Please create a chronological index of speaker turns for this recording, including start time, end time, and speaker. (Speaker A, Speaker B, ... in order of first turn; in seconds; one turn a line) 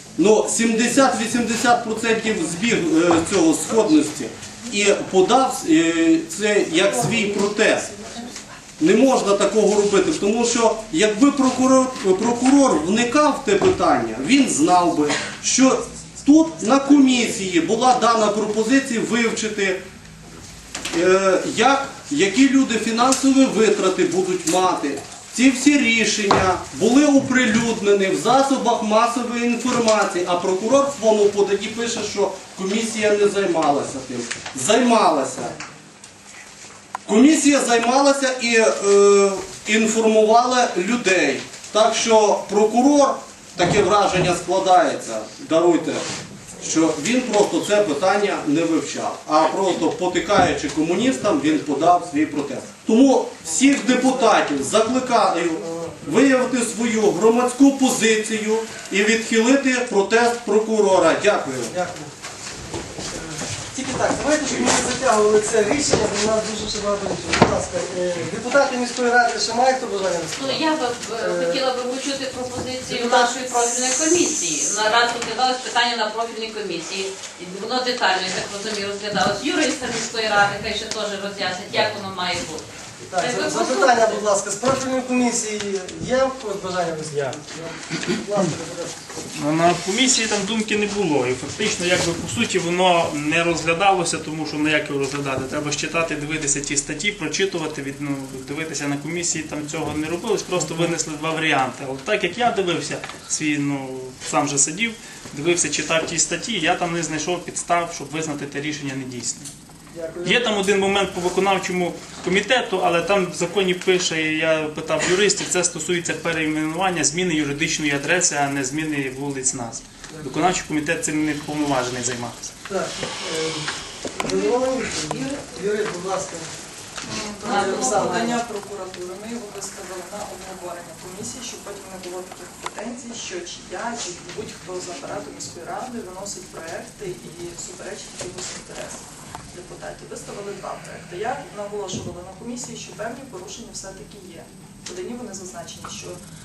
Speaker A: 0.2-7.9
Speaker A: 8.8-19.8
Speaker A: 20.9-35.5
Speaker A: 37.1-46.0
Speaker A: 46.6-61.7
Speaker B: 55.6-56.0
Speaker B: 61.7-62.1
Speaker B: 63.7-71.7
Speaker C: 70.4-82.6
Speaker B: 72.8-73.6
Speaker B: 83.1-89.0
Speaker C: 83.2-84.2
Speaker D: 89.4-109.5
Speaker B: 109.9-110.6
Speaker D: 110.2-122.5
Speaker B: 120.1-120.5
Speaker B: 122.7-126.5
Speaker E: 127.1-146.2
Speaker B: 127.4-128.4
Speaker C: 127.6-128.1